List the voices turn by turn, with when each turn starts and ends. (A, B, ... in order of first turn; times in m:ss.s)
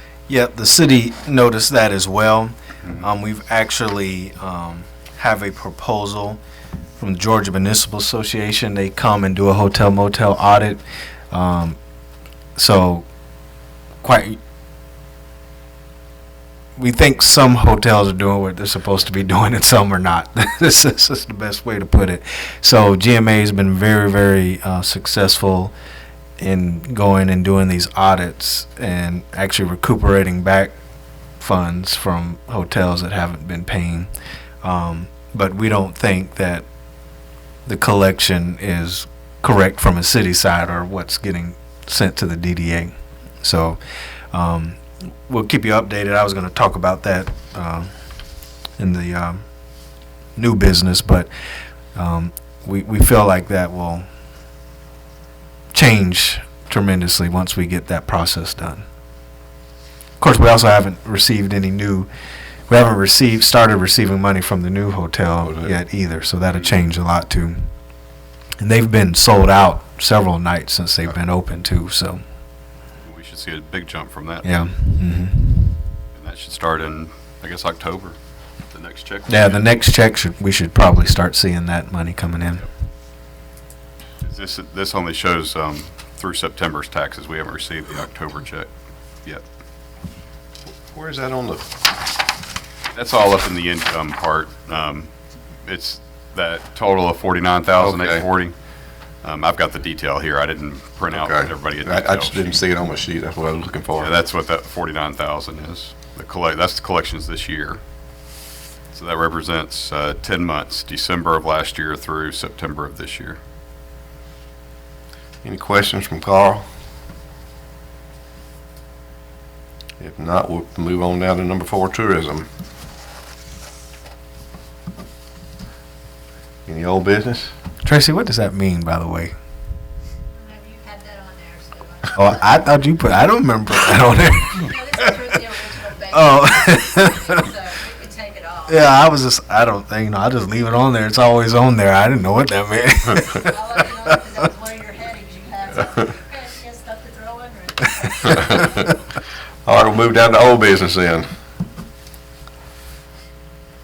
0:00.3-0:06.4 A
0:07.0-0:11.8 A
0:12.6-0:13.0 A
0:14.0-0:14.4 A
0:16.8-0:25.7 A
0:26.4-0:30.7 A
0:31.4-0:34.1 A
0:34.6-0:36.6 A
0:37.7-0:43.8 A
0:44.3-0:47.9 A
0:48.8-0:49.4 A
0:50.4-0:51.3 A
0:52.0-0:54.1 A
0:55.7-0:58.8 A
1:00.2-1:02.1 A
1:02.7-1:07.7 A
1:05.4-1:05.7 B
1:08.6-1:12.2 A
1:13.0-1:14.5 C
1:14.4-1:15.8 A
1:16.1-1:18.2 C
1:18.7-1:19.7 C
1:19.3-1:22.7 A
1:24.2-1:28.7 C
1:30.7-1:31.7 B
1:32.9-1:35.1 C
1:35.6-1:38.6 C
1:37.8-1:38.3 B
1:39.2-1:42.6 C
1:41.1-1:44.1 B
1:44.0-1:47.8 C
1:48.9-1:53.4 C
1:55.4-1:56.6 B
2:00.0-2:02.5 B
2:06.7-2:07.5 B
2:07.8-2:09.3 A
2:10.3-2:12.7 D
2:12.1-2:15.1 A
2:14.5-2:19.0 D
2:16.1-2:17.5 A
2:18.7-2:23.6 A
2:23.3-2:28.9 D
2:28.2-2:28.9 B
2:29.7-2:31.3 B